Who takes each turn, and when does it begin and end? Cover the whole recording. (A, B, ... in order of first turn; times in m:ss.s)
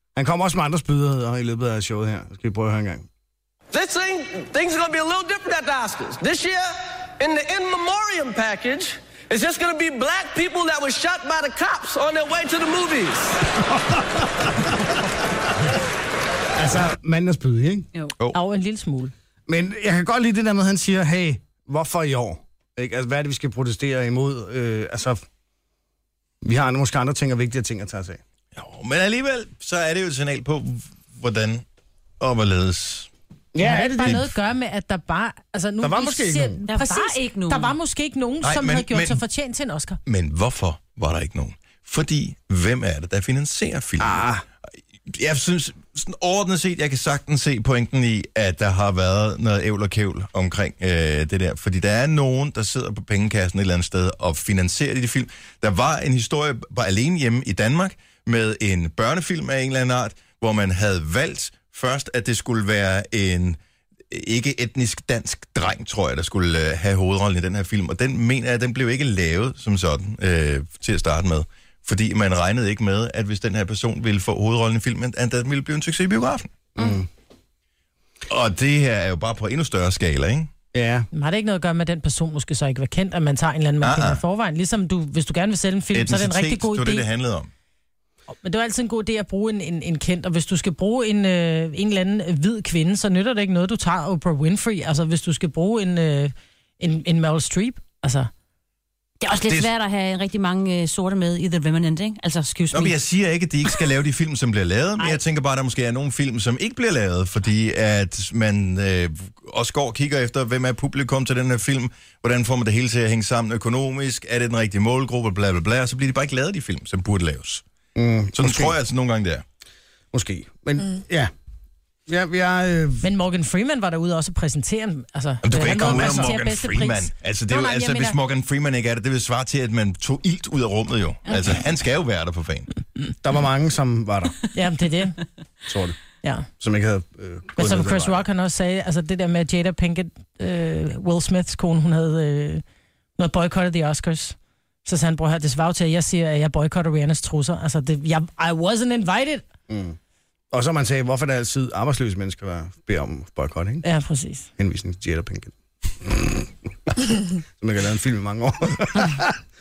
0:00.1-0:03.0 A
0:03.7-0:13.4 B
0:13.9-0:14.5 A
0:16.6-0:17.9 A
0:18.3-0:19.1 C
0:19.5-0:25.2 A
0:26.4-0:28.2 A
0:28.5-0:31.6 D
0:32.2-0:33.1 D
0:33.5-0:34.2 A
0:33.6-0:40.0 C
0:35.8-0:36.6 A
0:36.7-0:37.7 E
0:38.4-0:39.2 D
0:40.0-0:44.2 D
0:44.0-0:44.4 A
0:45.1-1:03.6 D
1:04.1-1:16.5 D
1:16.8-1:17.1 A
1:18.3-1:20.5 D
1:20.7-1:21.1 A
1:21.1-1:27.1 C
1:23.8-1:24.2 D
1:25.9-1:27.5 D
1:28.4-1:38.3 C
1:39.2-1:43.0 E
1:42.7-1:57.6 D
1:58.0-1:58.8 A
1:58.3-1:59.4 D
2:00.1-2:01.3 A
2:02.1-2:03.0 A
2:03.0-2:08.2 C
2:05.4-2:12.7 D
2:05.6-2:06.3 A
2:13.2-2:14.3 A
2:14.5-2:15.2 C
2:15.6-2:16.0 A
2:16.2-2:16.5 C
2:16.6-2:18.2 A
2:17.6-2:22.6 C
2:23.2-2:29.4 C
2:29.7-2:30.0 A
2:30.5-2:33.8 A
2:33.8-2:34.5 C
2:34.6-2:39.4 A